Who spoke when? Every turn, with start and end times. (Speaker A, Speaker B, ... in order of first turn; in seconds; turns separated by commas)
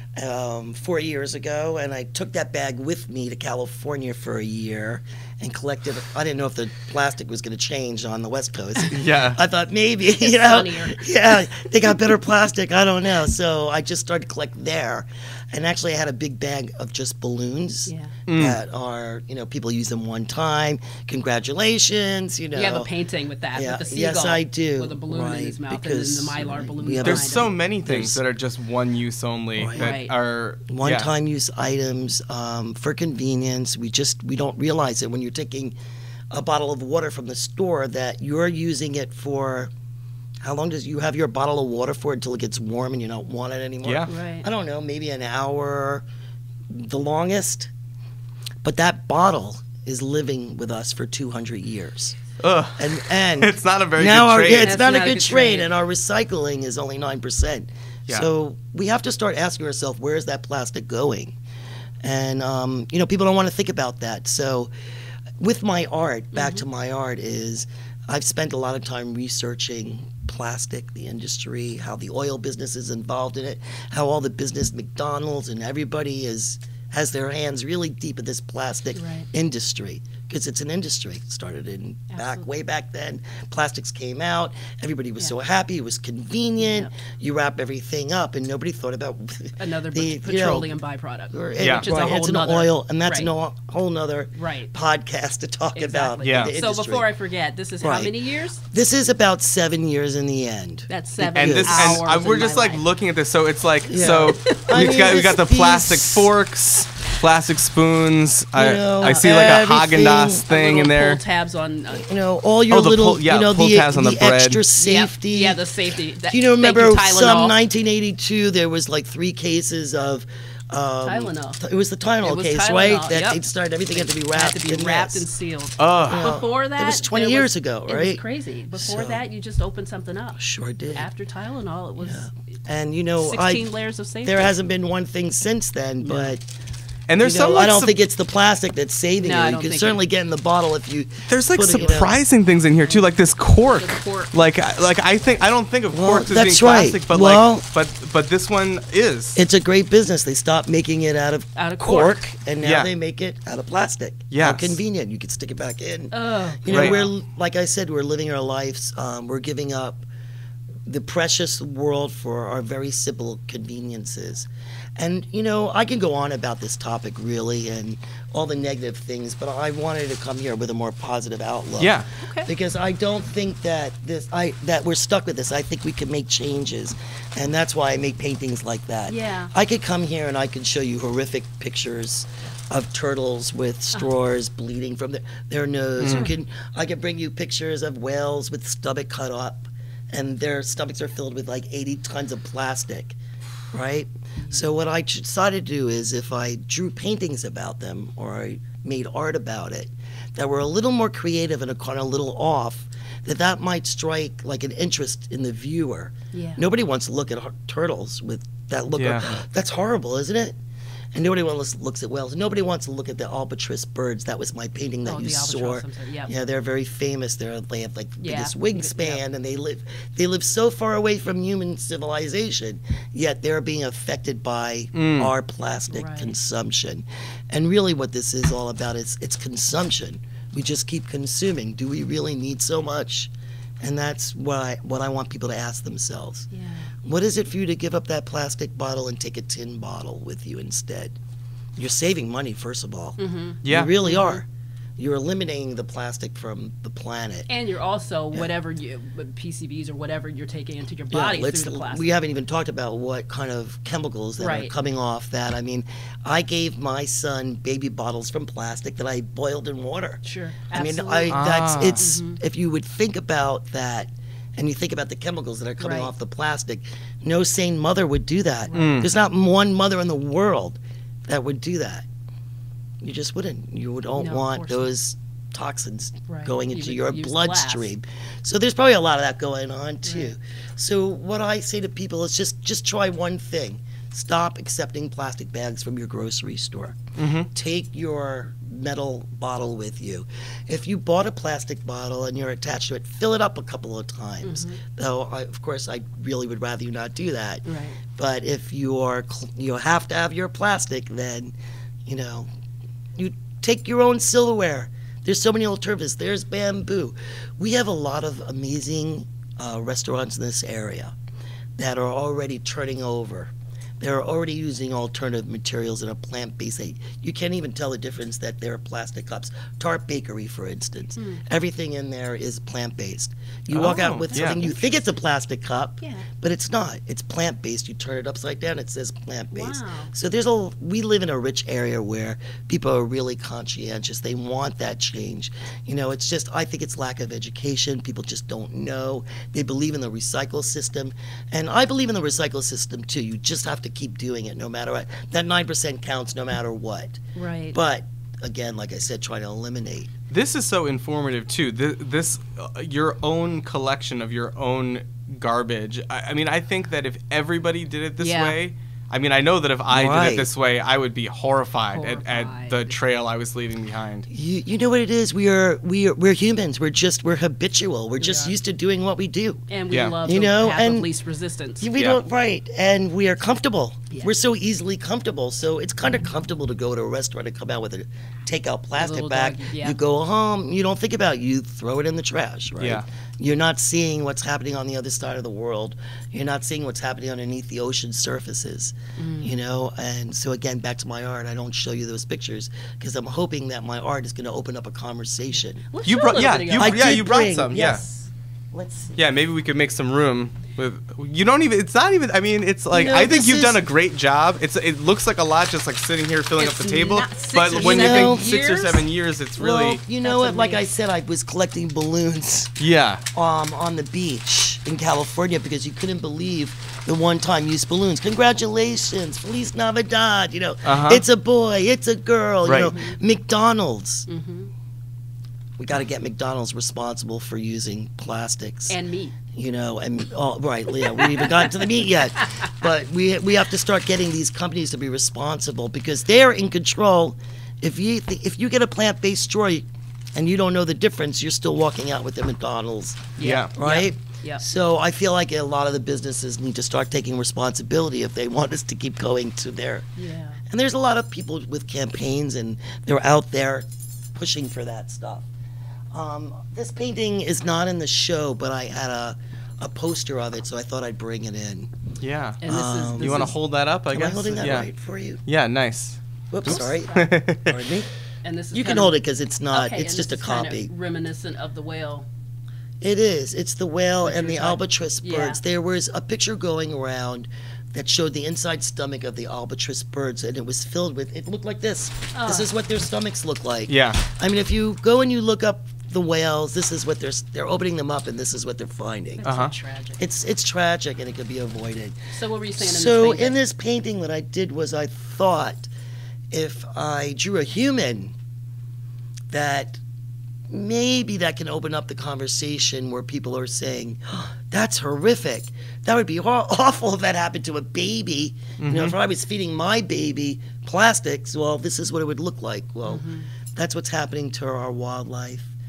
Speaker A: 0.2-22.9, Speaker B: 8.9-9.4, Speaker C: 10.2-11.1, Speaker C: 17.9-18.1, Speaker B: 18.3-18.6, Speaker C: 22.5-27.5, Speaker A: 23.6-28.2, Speaker B: 27.0-31.1, Speaker A: 29.6-29.9, Speaker C: 29.8-30.1, Speaker A: 30.7-35.8, Speaker A: 36.3-39.7, Speaker A: 40.4-46.0, Speaker B: 43.8-44.1, Speaker C: 44.1-44.5, Speaker A: 46.7-47.7, Speaker A: 48.6-52.2, Speaker B: 52.4-54.8, Speaker A: 52.8-61.4, Speaker C: 54.6-55.7, Speaker A: 62.0-64.7, Speaker A: 65.4-90.7, Speaker C: 66.3-66.6, Speaker C: 78.9-79.3, Speaker C: 82.1-82.5, Speaker C: 86.6-86.9, Speaker C: 89.6-93.3, Speaker A: 91.3-97.1, Speaker B: 91.6-91.9, Speaker C: 94.3-94.7, Speaker C: 95.8-98.6, Speaker B: 96.2-96.5, Speaker A: 97.8-102.0, Speaker C: 100.9-102.9, Speaker B: 101.4-111.2, Speaker A: 103.9-106.3, Speaker C: 104.0-105.0, Speaker A: 108.5-110.4, Speaker C: 109.0-109.5, Speaker C: 110.5-112.0, Speaker A: 111.9-115.6, Speaker B: 112.7-114.6, Speaker C: 114.8-117.5, Speaker A: 116.3-125.3, Speaker C: 121.0-121.6, Speaker C: 122.2-130.4, Speaker B: 125.8-126.4, Speaker A: 126.1-129.2, Speaker A: 130.4-131.1, Speaker C: 130.9-132.3, Speaker A: 132.0-133.7, Speaker C: 133.2-134.5, Speaker A: 134.2-136.5, Speaker B: 137.1-138.0, Speaker A: 137.2-142.1, Speaker C: 139.2-140.0, Speaker B: 141.3-149.4, Speaker C: 142.8-144.3, Speaker A: 145.9-147.7, Speaker A: 149.4-160.1, Speaker C: 151.6-152.2, Speaker B: 152.6-152.9, Speaker B: 154.3-154.8, Speaker C: 156.1-157.1, Speaker B: 156.7-157.0, Speaker A: 160.9-193.2, Speaker B: 171.8-172.1, Speaker C: 172.2-172.5, Speaker C: 179.1-179.5, Speaker B: 186.0-186.3, Speaker A: 193.7-210.6, Speaker C: 206.3-206.6, Speaker B: 208.9-209.4, Speaker A: 211.1-236.5, Speaker C: 215.1-216.3, Speaker C: 218.2-219.2, Speaker B: 224.9-225.3, Speaker C: 225.9-226.3, Speaker C: 236.5-236.9, Speaker A: 237.0-241.2, Speaker A: 241.8-244.5, Speaker C: 243.2-244.4, Speaker B: 243.6-243.9, Speaker A: 245.0-247.5, Speaker C: 247.5-252.1, Speaker A: 251.1-260.2, Speaker C: 254.4-254.7, Speaker C: 260.2-262.4, Speaker A: 260.7-272.1, Speaker B: 261.3-262.1, Speaker C: 265.8-266.1, Speaker C: 268.7-269.0, Speaker B: 268.8-269.1, Speaker A: 273.0-287.0, Speaker C: 274.2-274.9, Speaker C: 276.3-277.9, Speaker C: 280.1-280.3, Speaker B: 287.2-287.5, Speaker A: 287.5-301.5, Speaker C: 294.4-294.8, Speaker C: 297.6-298.0, Speaker A: 302.1-302.5, Speaker A: 303.2-311.1, Speaker A: 311.8-347.2, Speaker C: 321.2-321.4, Speaker B: 323.7-324.6, Speaker C: 323.8-324.8, Speaker C: 326.0-326.3, Speaker C: 329.5-330.1, Speaker C: 347.4-347.8, Speaker A: 347.7-350.1, Speaker B: 350.3-364.3, Speaker C: 358.2-358.6, Speaker A: 359.9-360.5, Speaker C: 361.9-363.0, Speaker A: 364.3-369.6, Speaker C: 368.2-368.6, Speaker C: 369.7-371.9, Speaker B: 369.9-370.2, Speaker A: 370.2-371.1, Speaker A: 371.8-395.8, Speaker C: 379.0-380.0, Speaker C: 389.2-389.5, Speaker C: 395.9-397.1, Speaker B: 396.1-398.0, Speaker A: 396.8-399.2, Speaker B: 399.2-410.0, Speaker A: 402.9-403.9, Speaker C: 406.6-409.1, Speaker A: 407.7-408.5, Speaker A: 409.6-412.8, Speaker C: 410.2-410.8, Speaker B: 412.8-413.2, Speaker A: 413.3-424.3, Speaker B: 420.8-421.2, Speaker B: 422.6-422.9, Speaker C: 422.9-423.2, Speaker C: 424.3-424.7, Speaker A: 425.8-429.0, Speaker C: 428.9-429.4, Speaker A: 429.5-450.1, Speaker C: 431.2-431.5, Speaker C: 443.4-444.6, Speaker B: 443.4-443.7, Speaker C: 450.2-450.6, Speaker A: 450.7-455.5, Speaker A: 456.1-461.9, Speaker B: 462.2-462.6, Speaker C: 462.6-463.5, Speaker A: 462.7-463.5, Speaker B: 463.2-464.9, Speaker A: 464.1-465.4, Speaker B: 465.5-467.8, Speaker A: 466.5-468.1, Speaker C: 466.6-467.3, Speaker C: 468.4-469.2, Speaker A: 468.7-470.9, Speaker C: 469.7-472.3, Speaker A: 473.0-489.4, Speaker C: 474.2-475.6, Speaker C: 482.3-482.7, Speaker B: 483.9-484.2, Speaker C: 489.4-490.2, Speaker B: 489.5-489.7, Speaker A: 490.2-492.2, Speaker C: 492.3-493.6, Speaker A: 492.8-495.9, Speaker A: 496.5-498.4, Speaker A: 499.5-500.0, Speaker A: 500.7-515.7, Speaker B: 508.8-509.2, Speaker C: 513.1-513.5